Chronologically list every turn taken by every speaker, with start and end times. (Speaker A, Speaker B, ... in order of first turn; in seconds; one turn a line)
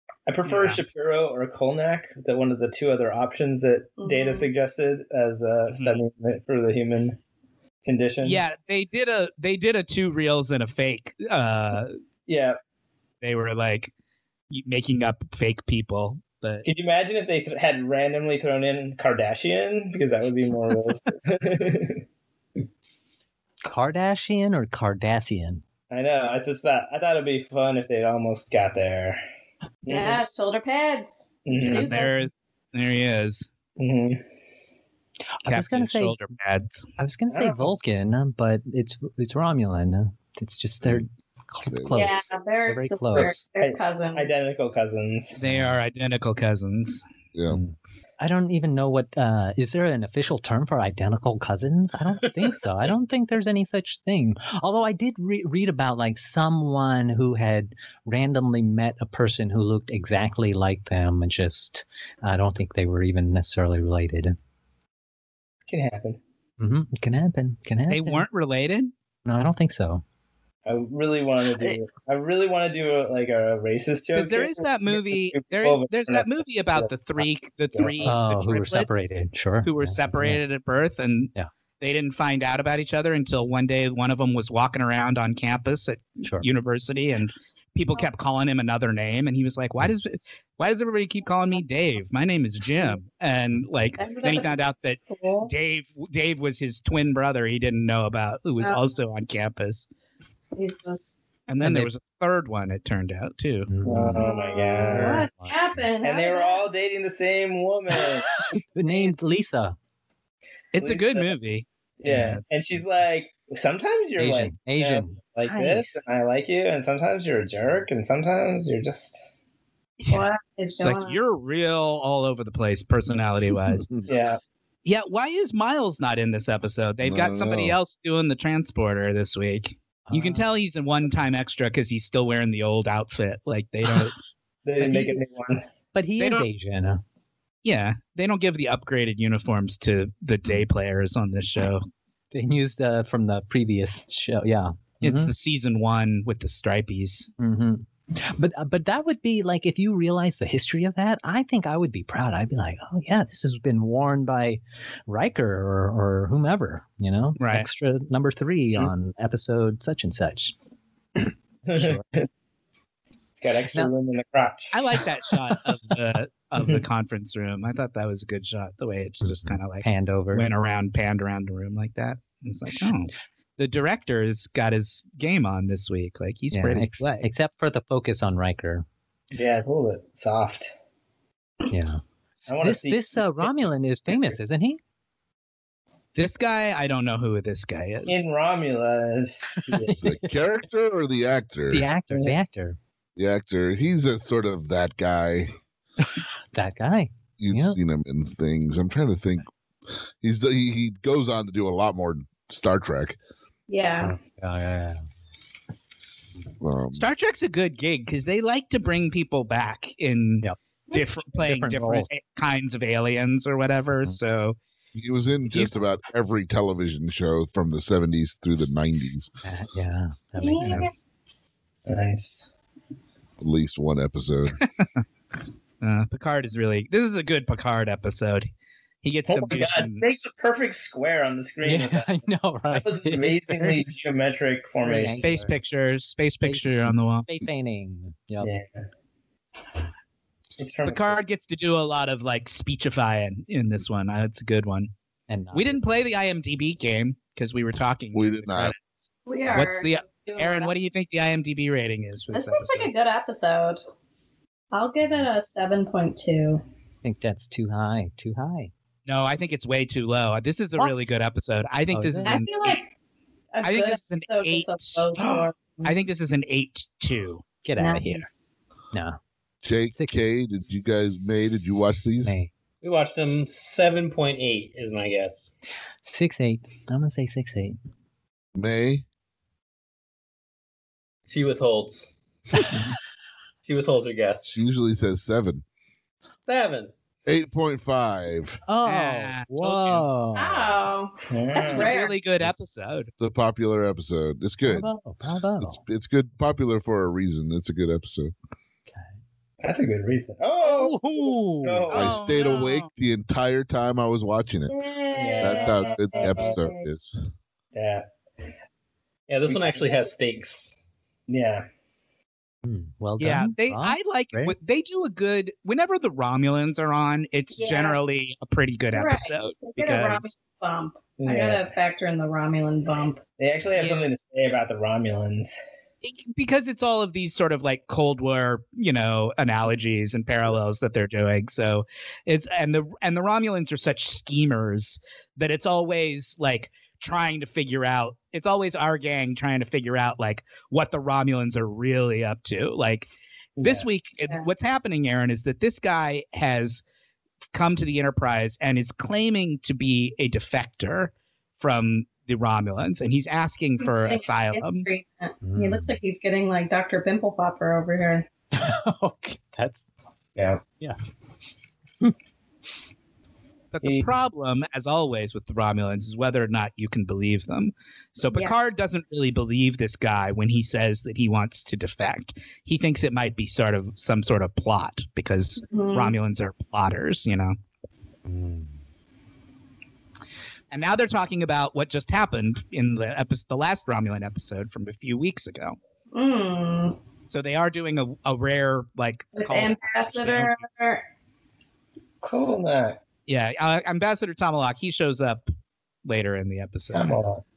Speaker A: 0.3-7.2
Speaker B: 0.5-0.8
Speaker C: 4.0-4.5
Speaker B: 5.7-6.0
Speaker A: 7.8-8.4
Speaker B: 8.2-12.0
Speaker A: 12.3-12.6
Speaker B: 13.2-13.9
Speaker B: 14.5-16.6
Speaker A: 16.6-22.0
Speaker D: 23.6-25.6
Speaker A: 25.9-29.2
Speaker A: 29.8-30.3
Speaker C: 29.9-32.3
Speaker A: 31.4-32.0
Speaker B: 31.6-33.5
Speaker A: 33.8-34.2
Speaker D: 35.4-36.2
Speaker B: 35.5-36.9
Speaker D: 37.0-43.4
Speaker A: 37.3-37.7
Speaker E: 41.6-42.2
Speaker C: 41.9-44.4
Speaker A: 43.1-45.4
Speaker B: 45.4-47.0
Speaker D: 45.4-45.7
Speaker E: 47.3-47.6
Speaker D: 47.5-64.3
Speaker A: 65.7-66.2
Speaker D: 66.6-68.2
Speaker B: 67.9-68.9
Speaker D: 69.2-70.0
Speaker A: 70.7-78.1
Speaker B: 74.1-79.1
Speaker D: 78.0-80.4
Speaker B: 79.6-99.9
Speaker C: 94.0-95.5
Speaker C: 100.5-101.2
Speaker B: 101.5-103.7
Speaker D: 101.6-101.9
Speaker D: 103.7-104.3
Speaker A: 103.8-105.2
Speaker C: 104.1-106.7
Speaker D: 104.8-105.8
Speaker A: 106.0-108.3
Speaker D: 108.4-109.8
Speaker B: 110.7-112.4
Speaker A: 110.8-111.3
Speaker A: 112.0-119.2
Speaker D: 114.2-116.0
Speaker B: 120.0-120.3
Speaker C: 120.1-121.2
Speaker B: 120.8-123.9
Speaker A: 124.1-124.4
Speaker B: 124.8-134.2
Speaker E: 127.0-127.8
Speaker D: 130.1-130.5
Speaker A: 134.6-135.6
Speaker D: 134.8-135.2
Speaker D: 135.9-137.0
Speaker B: 136.2-136.4
Speaker B: 137.6-141.8
Speaker D: 142.3-145.3
Speaker B: 145.0-147.3
Speaker D: 147.4-160.5
Speaker B: 157.4-157.7
Speaker D: 161.2-162.0
Speaker A: 161.7-162.3
Speaker A: 163.4-164.7
Speaker B: 164.7-177.2
Speaker D: 169.2-170.5
Speaker D: 176.5-178.8
Speaker A: 179.3-180.7
Speaker D: 181.7-182.0
Speaker A: 182.5-184.4
Speaker D: 182.6-184.8
Speaker B: 186.2-188.3
Speaker A: 188.1-190.0
Speaker D: 189.6-190.3
Speaker E: 190.0-191.9
Speaker D: 191.7-192.8
Speaker E: 193.2-195.5
Speaker D: 196.5-197.8
Speaker E: 197.4-199.5
Speaker E: 200.2-203.2
Speaker C: 203.7-204.2
Speaker D: 204.0-205.0
Speaker E: 206.6-207.1
Speaker B: 206.9-214.6
Speaker D: 211.4-212.1
Speaker E: 214.9-219.3
Speaker B: 215.5-215.8
Speaker D: 219.4-220.9
Speaker C: 220.4-220.9
Speaker B: 220.6-220.9
Speaker A: 221.8-222.5
Speaker E: 223.4-224.6
Speaker B: 225.8-228.5
Speaker B: 229.0-230.0
Speaker A: 229.3-232.1
Speaker D: 231.6-233.8
Speaker A: 232.7-235.2
Speaker D: 234.8-235.5
Speaker B: 235.2-237.3
Speaker D: 236.4-238.5
Speaker A: 238.4-238.8
Speaker A: 240.6-241.2
Speaker B: 240.8-244.9
Speaker D: 245.3-245.8
Speaker B: 245.5-252.9
Speaker E: 248.1-248.7
Speaker C: 249.2-250.7
Speaker C: 252.3-253.8
Speaker C: 254.7-256.6
Speaker D: 257.0-258.7
Speaker B: 259.1-262.8
Speaker D: 261.9-262.3
Speaker C: 262.2-262.9
Speaker C: 263.5-265.9
Speaker B: 263.6-267.4
Speaker D: 267.6-268.3
Speaker C: 267.8-268.5
Speaker D: 268.9-269.2
Speaker E: 269.6-272.3
Speaker D: 269.9-270.2
Speaker D: 272.2-272.5
Speaker F: 272.8-275.5
Speaker D: 276.0-277.8
Speaker E: 278.5-279.0
Speaker F: 281.3-282.1
Speaker F: 283.6-284.6
Speaker E: 284.5-285.6
Speaker F: 286.4-286.9
Speaker E: 287.2-288.6
Speaker D: 288.7-290.8
Speaker B: 288.8-290.1
Speaker C: 290.3-292.1
Speaker A: 291.3-291.9
Speaker B: 291.6-293.1
Speaker E: 293.2-294.9
Speaker D: 294.6-295.8
Speaker E: 295.6-298.3
Speaker A: 299.6-302.2
Speaker B: 300.6-302.9
Speaker D: 300.9-301.8
Speaker E: 301.9-304.7
Speaker C: 304.7-306.8
Speaker A: 305.1-306.6
Speaker E: 305.4-307.2
Speaker A: 307.7-308.1
Speaker F: 309.3-310.8
Speaker A: 309.5-310.0
Speaker A: 311.3-311.7
Speaker D: 312.6-314.5
Speaker B: 313.2-320.4
Speaker C: 317.5-318.0
Speaker C: 318.9-323.2
Speaker A: 321.2-321.7
Speaker A: 323.4-325.5
Speaker B: 323.7-324.1
Speaker B: 326.0-346.8
Speaker A: 343.6-343.9
Speaker B: 347.5-354.9
Speaker C: 353.8-358.3
Speaker D: 355.4-356.0
Speaker D: 358.5-359.9
Speaker A: 360.4-360.6
Speaker B: 363.7-377.5
Speaker A: 363.8-364.1
Speaker C: 375.7-376.1
Speaker D: 378.2-378.8
Speaker B: 380.7-385.8
Speaker C: 386.1-387.0
Speaker B: 387.3-390.6
Speaker C: 389.4-391.0
Speaker A: 392.2-393.0
Speaker B: 393.3-395.5
Speaker B: 396.0-397.1
Speaker A: 396.9-397.4